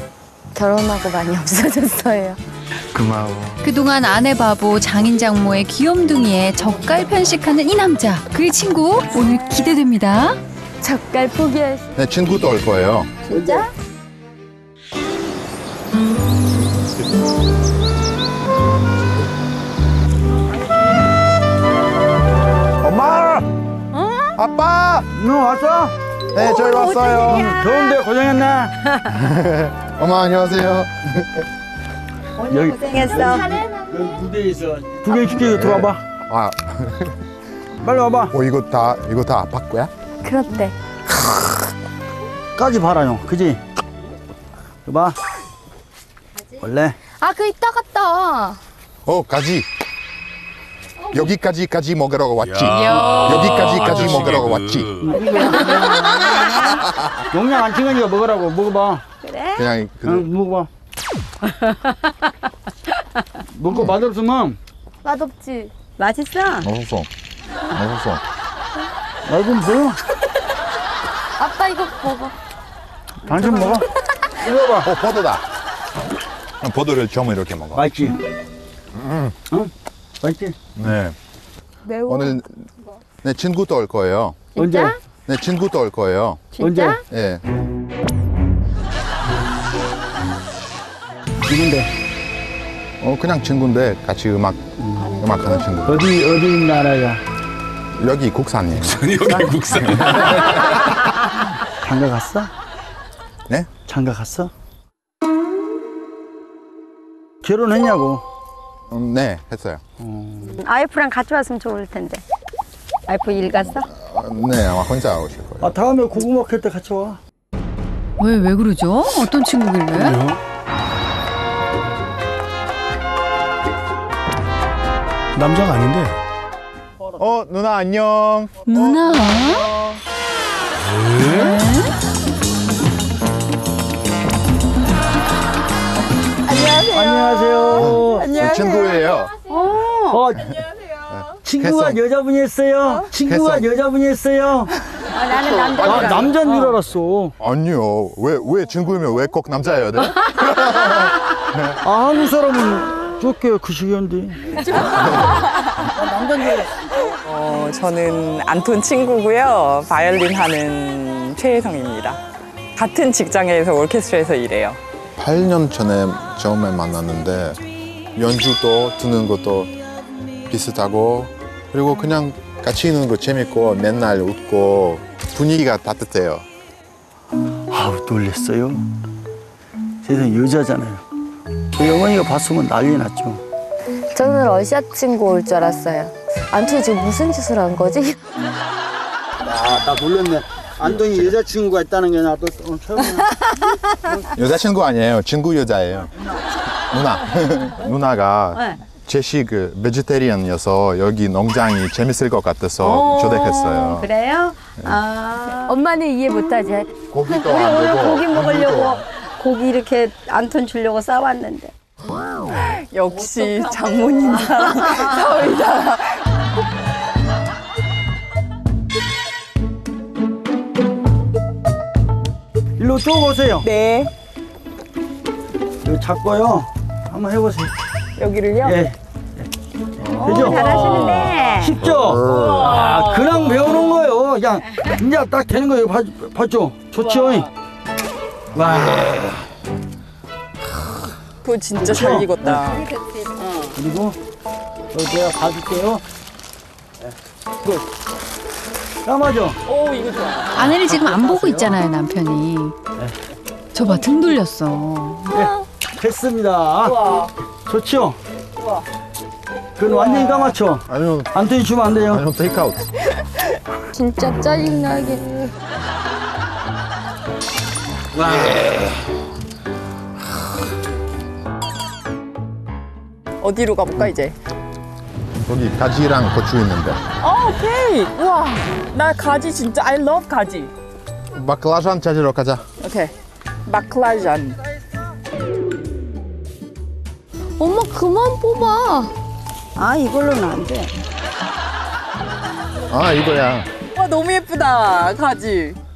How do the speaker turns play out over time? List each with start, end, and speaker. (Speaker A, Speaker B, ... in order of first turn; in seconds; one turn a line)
Speaker A: 0.5-2.4
Speaker B: 2.9-3.6
Speaker C: 3.6-10.4
Speaker A: 10.8-11.9
Speaker B: 11.9-13.2
Speaker D: 13.2-13.7
Speaker E: 13.3-13.6
Speaker B: 22.8-23.5
Speaker B: 24.3-25.1
Speaker E: 25.1-25.9
Speaker B: 26.3-27.5
Speaker E: 27.1-28.7
Speaker B: 29.0-31.4
Speaker D: 32.4-33.6
Speaker E: 32.4-36.0
Speaker B: 35.6-37.2
Speaker E: 37.8-38.3
Speaker B: 38.3-39.9
Speaker A: 40.2-40.7
Speaker E: 42.5-43.6
Speaker E: 44.8-45.2
Speaker E: 46.6-47.0
Speaker A: 47.2-48.6
Speaker B: 49.0-49.7
Speaker B: 51.1-54.9
Speaker F: 52.4-55.1
Speaker C: 52.7-53.8
Speaker E: 55.0-56.0
Speaker D: 56.0-56.5
Speaker B: 56.4-57.1
Speaker E: 57.3-59.0
Speaker D: 59.2-59.7
Speaker B: 59.5-60.3
Speaker E: 60.0-60.7
Speaker E: 63.5-64.6
Speaker A: 65.0-65.7
Speaker D: 66.0-66.7
Speaker B: 66.6-67.1
Speaker B: 67.7-68.2
Speaker E: 69.2-70.0
Speaker A: 71.4-72.3
Speaker E: 73.2-73.8
Speaker A: 73.3-73.8
Speaker E: 74.4-74.9
Speaker B: 74.8-75.4
Speaker B: 76.6-77.8
Speaker E: 77.7-78.2
Speaker B: 79.0-79.3
Speaker E: 79.5-80.5
Speaker B: 80.8-81.2
Speaker A: 81.9-82.3
Speaker B: 82.0-82.7
Speaker B: 83.2-84.5
Speaker D: 84.5-84.9
Speaker E: 84.5-85.0
Speaker B: 85.2-86.5
Speaker D: 86.5-87.0
Speaker E: 86.6-87.0
Speaker B: 87.1-87.4
Speaker E: 91.5-91.9
Speaker B: 93.0-96.0
Speaker E: 94.8-95.1
Speaker E: 95.8-97.2
Speaker B: 98.0-100.6
Speaker F: 98.8-100.6
Speaker E: 99.3-99.5
Speaker E: 101.8-102.5
Speaker E: 103.8-104.5
Speaker E: 107.4-108.2
Speaker B: 108.9-109.8
Speaker E: 110.0-110.6
Speaker D: 110.6-112.2
Speaker D: 113.1-113.8
Speaker B: 113.5-115.7
Speaker E: 115.6-117.2
Speaker C: 118.2-120.2
Speaker F: 120.0-120.4
Speaker F: 125.3-126.2
Speaker B: 127.2-128.9
Speaker C: 128.7-129.7
Speaker F: 130.9-131.5
Speaker C: 131.2-131.9
Speaker G: 136.4-139.1
Speaker E: 136.9-138.3
Speaker B: 137.8-139.3
Speaker D: 139.5-140.2
Speaker E: 140.1-140.4
Speaker B: 140.4-142.0
Speaker E: 141.4-144.7
Speaker B: 143.2-143.6
Speaker D: 145.1-146.8
Speaker G: 145.5-145.9
Speaker E: 145.7-147.3
Speaker B: 147.4-151.8
Speaker E: 151.8-154.6
Speaker G: 154.7-155.4
Speaker E: 155.9-156.7
Speaker G: 157.2-162.2
Speaker G: 162.8-164.8
Speaker B: 165.2-167.6
Speaker B: 168.2-169.7
Speaker B: 170.5-176.5
Speaker E: 177.7-178.8
Speaker E: 180.0-181.0
Speaker E: 181.7-183.4
Speaker A: 184.1-188.2
Speaker E: 189.4-193.4
Speaker B: 190.8-191.2
Speaker B: 194.3-196.1
Speaker B: 196.9-204.1
Speaker D: 202.8-205.8
Speaker A: 205.6-206.9
Speaker B: 207.1-209.0
Speaker D: 207.2-211.7
Speaker G: 212.6-216.2
Speaker E: 222.8-223.7
Speaker G: 223.6-224.1
Speaker E: 225.8-227.7
Speaker G: 228.2-228.9
Speaker E: 228.6-229.5
Speaker E: 230.0-230.7
Speaker B: 230.1-232.7
Speaker G: 230.2-231.1
Speaker D: 230.2-231.8
Speaker E: 231.6-237.5
Speaker G: 232.3-233.6
Speaker E: 238.5-239.3
Speaker G: 241.4-242.9
Speaker E: 241.8-242.7
Speaker E: 243.7-244.2
Speaker E: 244.9-246.0
Speaker E: 249.0-249.6
Speaker G: 249.7-250.7
Speaker C: 250.5-252.8
Speaker E: 250.8-251.8
Speaker C: 253.7-255.4
Speaker E: 255.3-257.0
Speaker G: 256.8-257.3
Speaker E: 257.7-258.2
Speaker G: 258.6-258.8
Speaker E: 259.8-262.2
Speaker G: 259.9-260.5
Speaker B: 260.9-261.6
Speaker B: 262.1-262.9
Speaker A: 263.9-265.5
Speaker G: 273.4-274.3
Speaker B: 275.4-277.0
Speaker G: 277.2-280.7
Speaker B: 281.3-282.6
Speaker G: 282.8-283.1
Speaker G: 283.6-284.6
Speaker A: 287.6-289.1
Speaker D: 289.8-290.9
Speaker B: 292.9-293.7
Speaker G: 293.9-295.8